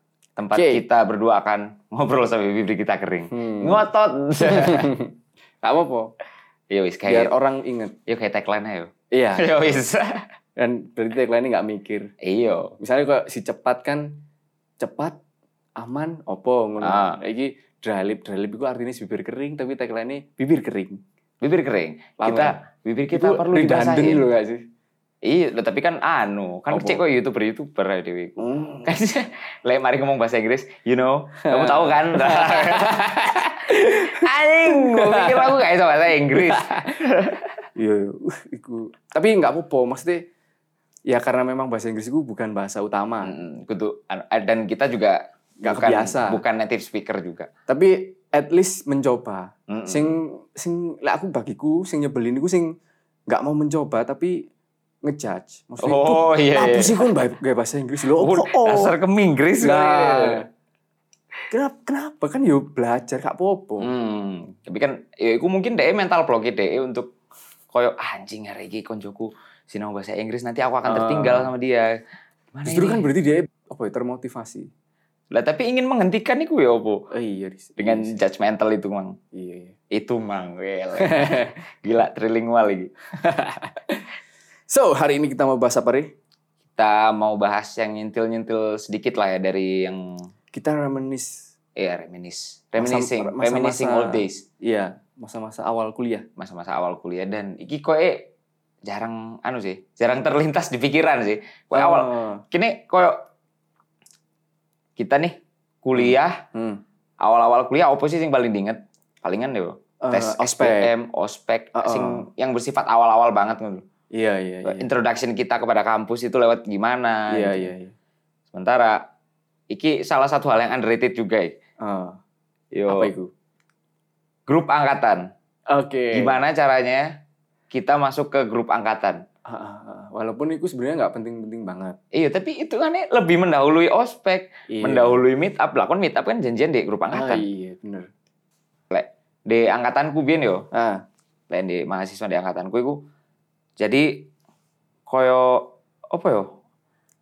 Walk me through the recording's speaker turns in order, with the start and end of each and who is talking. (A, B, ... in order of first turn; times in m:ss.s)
0:00.4-0:04.9 A
0:00.5-0:00.8 B
0:03.3-0:03.8 B
0:04.4-0:06.1 B
0:06.7-0:07.3 A
0:07.1-0:08.0 B
0:08.1-0:10.2 A
0:09.1-0:09.8 B
0:10.6-0:12.1 B
0:12.2-0:12.8 A
0:12.8-0:14.2 B
0:14.8-0:15.2 B
0:15.8-0:21.0 B
0:16.8-0:17.2 A
0:21.4-0:24.3 A
0:22.2-0:22.6 B
0:23.1-0:24.6 B
0:25.2-0:37.5 A
0:26.7-0:27.0 B
0:28.4-0:28.9 B
0:31.4-0:35.6 B
0:36.3-0:36.8 B
0:37.8-0:40.2 B
0:41.1-0:43.3 B
0:43.2-0:47.5 A
0:45.6-0:46.4 B
0:47.7-0:52.7 B
0:49.7-0:50.1 A
0:53.3-0:54.4 B
0:55.0-0:59.0 B
0:55.8-0:57.1 A
0:58.2-1:00.4 A
0:59.6-1:00.5 B
1:01.5-1:03.9 B
1:03.8-1:07.1 A
1:07.7-1:11.9 A
1:10.8-1:11.5 B
1:12.5-1:13.0 A
1:12.7-1:14.7 B
1:15.3-1:17.1 A
1:17.1-1:18.2 B
1:17.8-1:19.2 A
1:19.3-1:19.8 B
1:19.9-1:22.9 A
1:21.0-1:21.6 B
1:23.2-1:24.1 B
1:24.7-1:26.1 B
1:26.8-1:30.3 A
1:30.5-1:31.5 B
1:31.8-1:34.4 A
1:32.8-1:36.3 B
1:36.4-1:38.3 A
1:38.8-1:43.2 A
1:41.7-1:42.4 B
1:45.0-1:46.4 A
1:46.0-1:46.8 B
1:47.2-1:53.8 A
1:50.0-1:50.9 B
1:51.8-1:52.3 B
1:54.1-1:54.9 B
1:54.6-1:57.7 A
1:57.3-1:57.9 B
1:58.5-1:59.0 A
1:59.7-2:01.6 A
2:01.8-2:02.2 B
2:02.7-2:03.1 A
2:02.9-2:03.3 B
2:04.5-2:05.2 A
2:05.7-2:06.4 B
2:06.1-2:07.0 A
2:07.7-2:09.2 A
2:09.5-2:12.0 B
2:12.1-2:17.4 A
2:14.7-2:15.2 B
2:17.1-2:18.1 B
2:18.9-2:20.7 A
2:20.7-2:21.0 B
2:21.5-2:23.0 A
2:23.8-2:24.3 A
2:25.1-2:26.5 A